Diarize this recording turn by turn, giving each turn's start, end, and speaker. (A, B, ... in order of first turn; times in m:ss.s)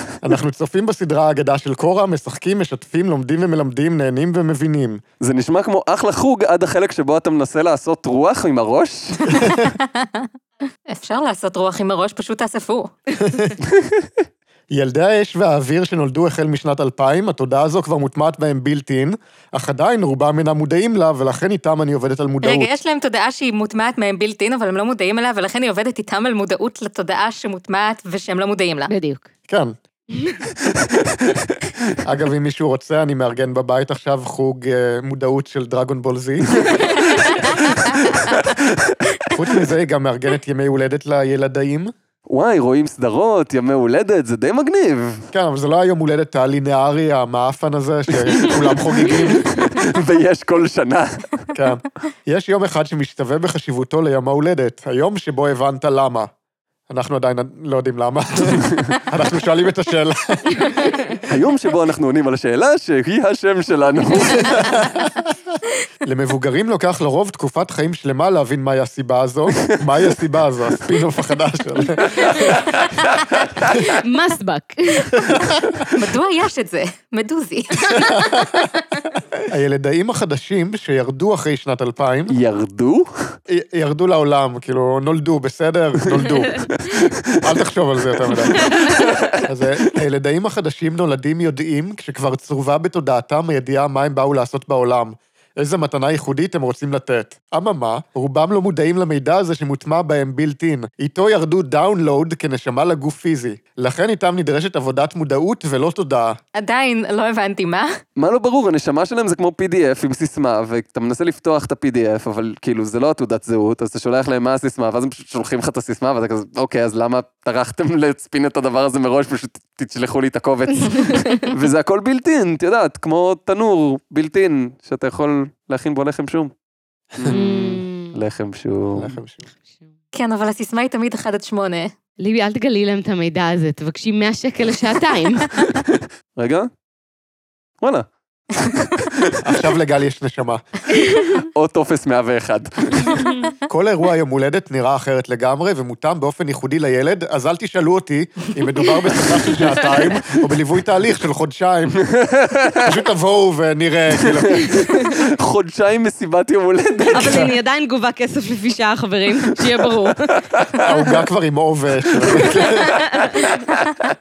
0:00.2-0:05.0 A
0:05.2-0:09.3 B
0:09.3-0:09.7 A
0:09.6-0:10.3 C
0:10.9-0:12.9 C
0:13.2-0:13.5 A
0:13.6-0:14.1 B
0:14.7-0:22.7 A
0:22.4-0:28.9 C
0:28.9-0:29.3 D
0:29.5-0:29.8 A
0:30.1-0:30.4 D
0:30.7-0:31.7 B
0:32.0-0:36.8 A
0:38.2-0:38.9 B
0:39.3-0:41.9 A
0:42.3-0:45.3 B
0:45.3-0:49.6 A
0:48.3-0:51.5 B
0:51.6-0:56.3 A
0:56.9-1:01.0 A
0:58.5-0:58.9 B
1:01.2-1:04.8 B
1:04.4-1:05.3 A
1:06.0-1:12.6 A
1:12.0-1:13.7 B
1:13.7-1:15.4 D
1:15.2-1:15.8 A
1:15.9-1:18.4 C
1:18.0-1:18.7 A
1:19.5-1:22.3 A
1:22.3-1:23.1 B
1:23.5-1:26.7 A
1:26.7-1:27.3 B
1:27.4-1:28.8 A
1:28.3-1:29.4 B
1:29.4-1:46.4 A
1:46.6-1:47.9 C
1:48.2-2:06.5 B
2:00.9-2:01.4 D
2:07.2-2:09.1 B
2:07.3-2:08.1 D
2:08.9-2:09.5 A
2:10.1-2:11.9 C
2:12.2-2:15.5 D
2:15.8-2:16.7 B
2:17.8-2:18.1 B
2:18.6-2:19.4 B
2:19.4-2:20.6 A
2:21.5-2:23.1 B
2:23.7-2:32.0 A
2:32.0-2:32.9 B
2:32.8-2:34.8 A
2:34.2-2:37.5 B
2:37.1-2:40.4 D
2:37.2-2:37.5 A
2:40.5-2:40.9 B
2:40.8-2:43.0 A
2:42.1-2:42.8 B
2:42.9-2:43.4 D
2:43.4-2:43.8 B